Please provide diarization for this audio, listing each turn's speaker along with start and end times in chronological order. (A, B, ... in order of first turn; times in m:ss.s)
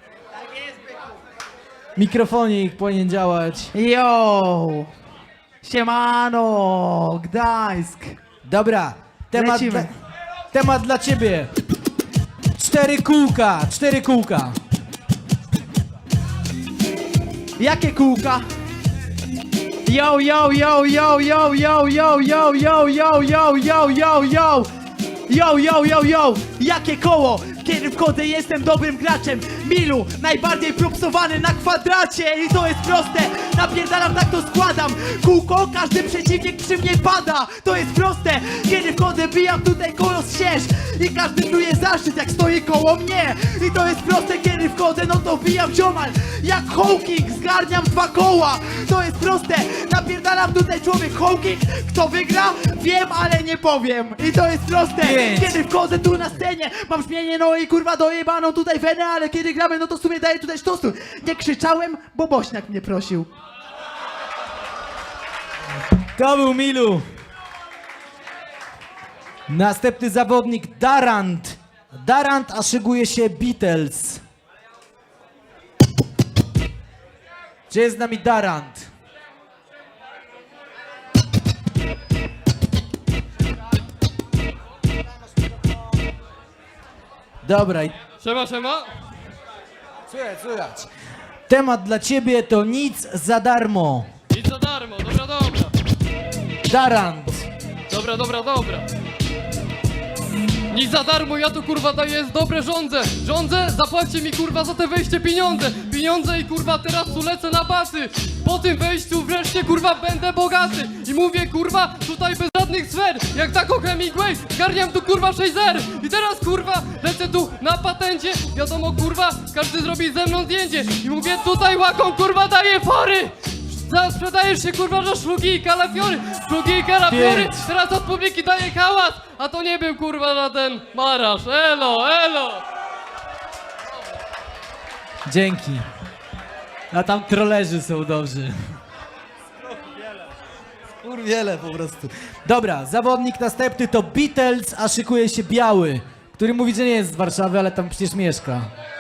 0:02.0-0:03.7 A
0:03.7-0:04.9 B
0:05.6-0:08.2 B
0:08.4-0:09.9 A
0:09.3-0:09.9 B
0:10.5-0:11.5 A
0:12.6-0:14.6 A
0:17.6-0:18.4 B
0:19.8-0:24.7 B
0:25.3-1:03.3 B
0:55.0-0:55.6 A
1:06.2-1:07.0 A
1:09.5-1:14.2 A
1:17.7-1:18.9 A
1:27.4-1:28.0 A
1:28.2-1:28.9 C
1:30.1-1:30.9 A
1:31.5-1:34.1 A
1:34.3-1:35.7 C
1:36.7-1:37.5 A
1:37.9-1:38.9 C
1:40.7-2:12.6 C
2:07.0-2:07.7 A
2:15.3-2:15.8 A
2:16.9-2:18.8 A
2:21.0-2:28.7 A